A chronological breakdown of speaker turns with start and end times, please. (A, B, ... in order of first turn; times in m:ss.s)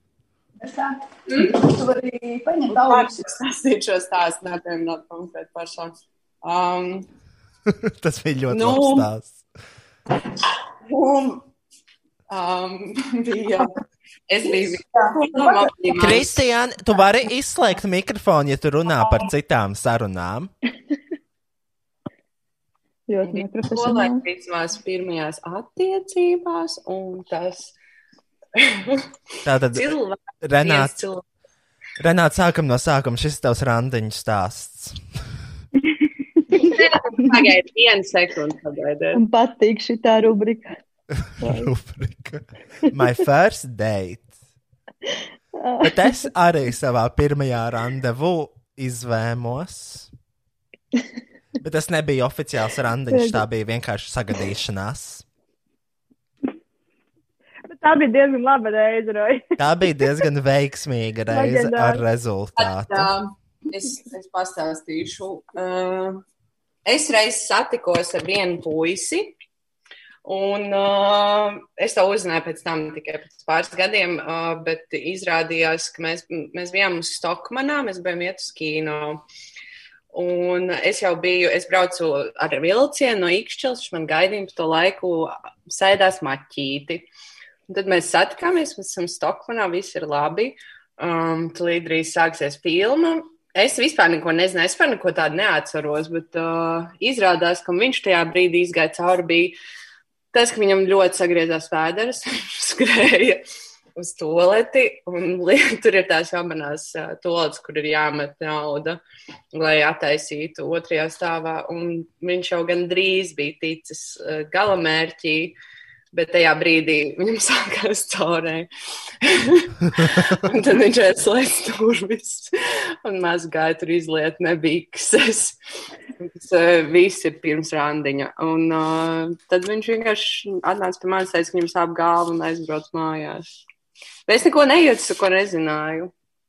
0:00.6-0:03.2 A
0:01.3-0:01.6 B
0:02.7-0:07.1 B
0:07.7-0:09.4 C
0:08.5-0:09.1 B
0:10.9-0:11.4 B
0:12.3-0:13.8 B
0:14.3-0:16.3 B
0:16.0-0:20.5 C
0:23.1-0:24.2 D
0:23.2-0:27.8 B
0:28.6-0:29.0 B
0:29.4-0:29.9 C
0:29.7-0:31.2 B
0:30.4-0:30.9 C
0:32.0-0:35.0 C
0:36.6-0:39.2 B
0:39.1-0:40.7 D
0:41.3-0:44.3 C
0:41.4-0:41.7 D
0:45.6-0:46.0 D
0:45.8-0:50.1 C
0:51.6-0:55.2 C
0:53.1-0:53.4 D
0:57.7-0:59.4 E
0:59.6-1:03.1 C
1:01.3-1:02.0 E
1:02.6-1:06.2 B
1:06.8-1:09.4 B
1:10.2-1:19.2 B
1:20.1-1:27.1 B
1:27.7-1:39.6 B
1:40.3-1:43.4 B
1:44.0-1:49.0 B
1:49.5-1:55.6 B
1:56.1-1:58.7 B
1:59.2-2:02.5 B
2:03.0-2:05.6 B
2:06.2-2:13.4 B
2:14.3-2:16.1 B